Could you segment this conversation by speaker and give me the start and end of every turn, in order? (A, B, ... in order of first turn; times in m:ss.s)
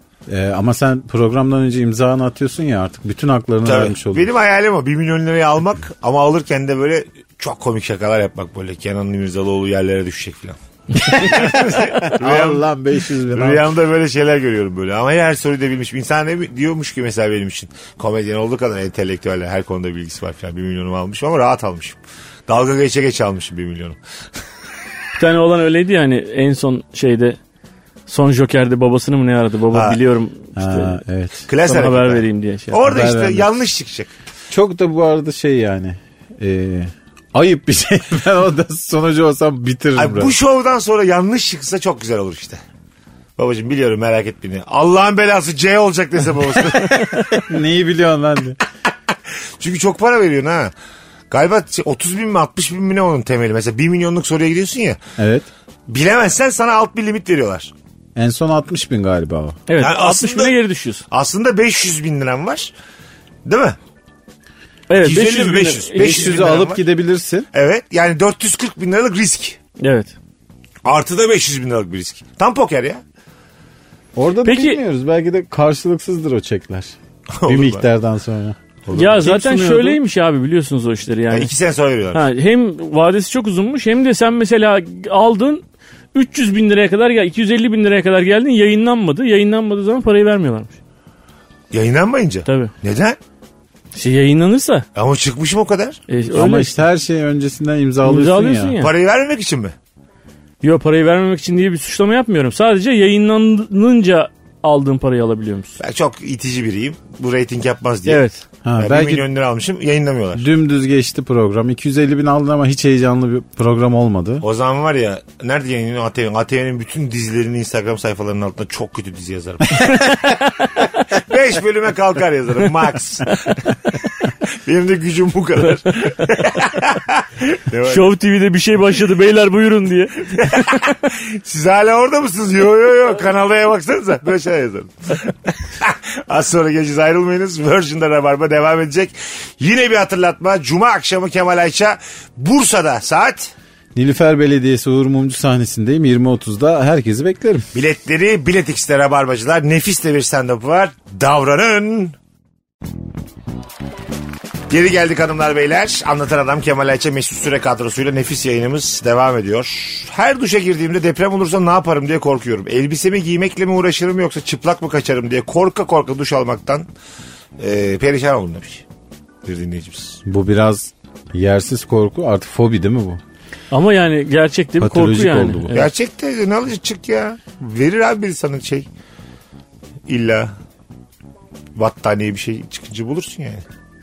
0:00.3-0:04.3 A
0:03.6-0:12.6 B
0:11.1-0:13.7 A
0:13.3-0:24.0 B
0:25.2-0:27.4 C
0:28.1-0:31.0 C
0:29.7-0:30.0 B
0:30.6-0:31.4 A
0:31.5-0:34.1 B
0:31.6-0:32.8 C
0:32.8-0:33.5 A
0:34.5-0:40.3 A
0:40.0-0:42.6 B
0:43.4-0:47.4 B
0:47.1-0:48.6 A
0:49.6-0:50.7 B
0:51.3-0:55.0 B
0:55.2-0:55.5 A
0:55.9-0:57.7 B
0:58.2-0:59.6 A
0:59.7-1:01.0 C
0:59.8-1:00.6 B
1:01.1-1:02.7 B
1:03.4-1:03.8 B
1:04.9-1:06.4 C
1:05.0-1:06.8 B
1:06.0-1:07.5 A
1:07.5-1:09.6 B
1:09.8-1:10.1 C
1:10.8-1:13.0 B
1:14.1-1:16.9 A
1:14.4-1:14.8 C
1:17.3-1:17.8 B
1:17.4-1:20.0 A
1:18.9-1:19.3 B
1:18.9-1:21.5 C
1:21.3-1:22.2 B
1:22.1-1:30.8 C
1:31.7-1:33.2 B
1:32.4-1:32.7 C
1:33.9-1:34.9 C
1:34.9-1:36.0 B
1:36.1-1:36.7 C
1:36.3-1:38.8 A
1:38.0-1:38.9 C
1:38.8-1:39.7 B
1:40.6-1:45.8 C
1:45.8-1:48.2 B
1:48.0-1:48.4 C
1:48.6-1:49.2 A
1:48.8-1:50.4 B
1:50.4-1:54.4 A
1:54.4-2:00.0 B
1:59.8-2:00.6 C
2:01.1-2:03.9 B
2:04.4-2:08.1 B
2:07.8-2:10.8 C
2:10.4-2:23.5 B
2:23.9-2:27.7 A
2:27.7-2:32.1 B
2:34.7-2:46.9 B
2:47.6-2:48.8 B
2:49.4-2:50.2 B
2:50.2-2:53.2 A
2:53.7-2:55.9 C
2:54.8-2:55.8 A
2:55.7-2:58.9 B
3:00.1-3:00.5 B
3:01.8-3:03.6 B